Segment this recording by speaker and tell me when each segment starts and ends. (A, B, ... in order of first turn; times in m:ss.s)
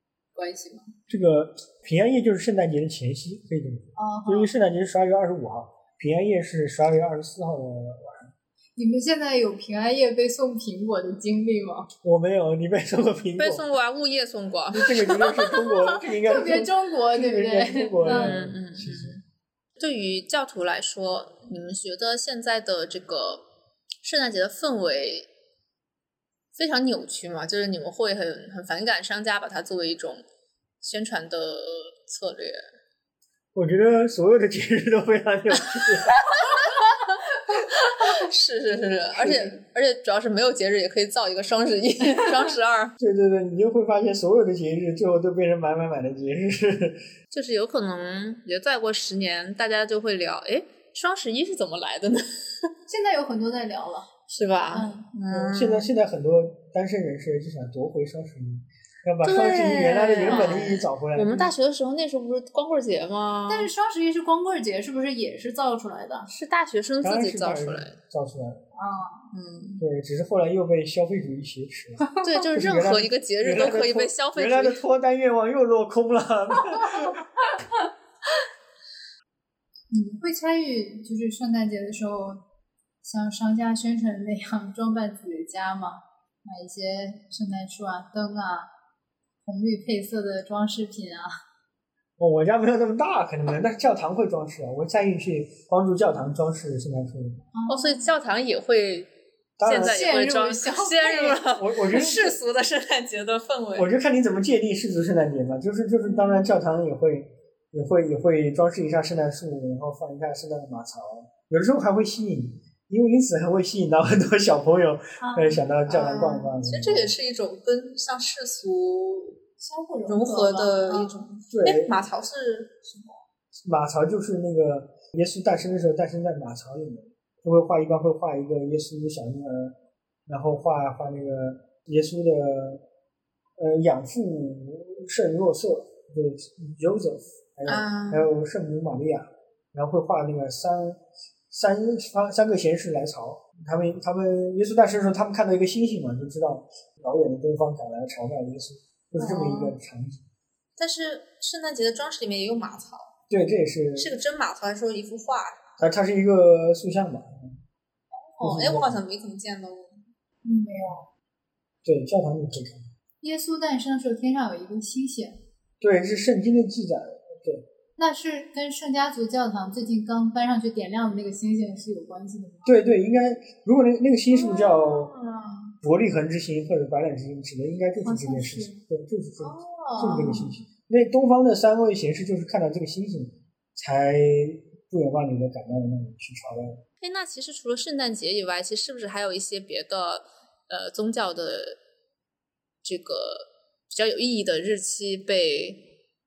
0:00.3-0:00.9 A
0:01.1-0:08.3 B
0:04.0-0:04.6 A
0:08.8-0:11.9 A
0:12.0-0:13.7 B
0:13.4-0:15.9 C
0:14.7-0:19.2 B
0:16.2-0:18.4 A
0:18.0-0:19.2 C
0:19.8-0:23.4 C
0:24.0-0:25.3 C
0:26.6-0:30.2 C
0:30.8-0:32.6 C
0:33.5-0:36.2 B
0:35.8-0:43.0 C
0:38.8-0:39.6 B
0:43.0-0:47.1 B
0:47.3-0:52.7 C
0:52.9-0:54.1 A
0:54.3-0:55.9 C
0:54.7-0:55.1 A
0:55.3-1:01.5 B
0:59.2-1:03.7 C
1:00.3-1:00.8 A
1:03.5-1:06.3 A
1:06.3-1:07.9 C
1:07.0-1:08.6 B
1:08.8-1:09.3 A
1:09.3-1:09.8 C
1:09.8-1:17.3 B
1:12.2-1:14.8 C
1:19.9-1:22.4 A
1:23.0-1:28.7 A
1:29.4-1:31.3 A
1:32.2-1:37.4 B
1:37.5-1:38.0 A
1:37.7-1:39.1 C
1:39.6-1:40.0 B
1:39.6-1:43.9 C
1:39.7-1:41.4 A
1:41.4-1:42.4 B
1:43.8-1:57.1 B
1:55.2-1:55.6 A
1:55.9-1:59.4 C
1:59.6-2:01.3 A
2:00.1-2:03.2 C
2:01.5-2:02.0 B
2:03.6-2:09.8 B
2:10.3-2:12.8 B
2:13.6-2:30.2 B
2:17.7-2:18.3 C
2:29.2-2:29.8 C
2:30.8-2:33.1 C
2:33.3-2:34.2 B
2:34.0-2:35.6 C
2:35.8-2:37.6 B
2:38.2-2:40.0 C
2:38.4-2:39.0 B
2:40.4-2:41.1 A
2:41.8-2:42.9 B
2:43.2-2:45.4 A
2:45.8-2:47.7 B
2:48.0-2:52.8 A
2:52.6-2:55.1 B
2:54.3-2:55.8 C
2:55.8-3:06.8 B
2:58.0-2:58.8 A
2:59.4-3:00.4 C
3:00.0-3:00.5 A
3:07.0-3:11.8 C
3:12.8-3:15.9 C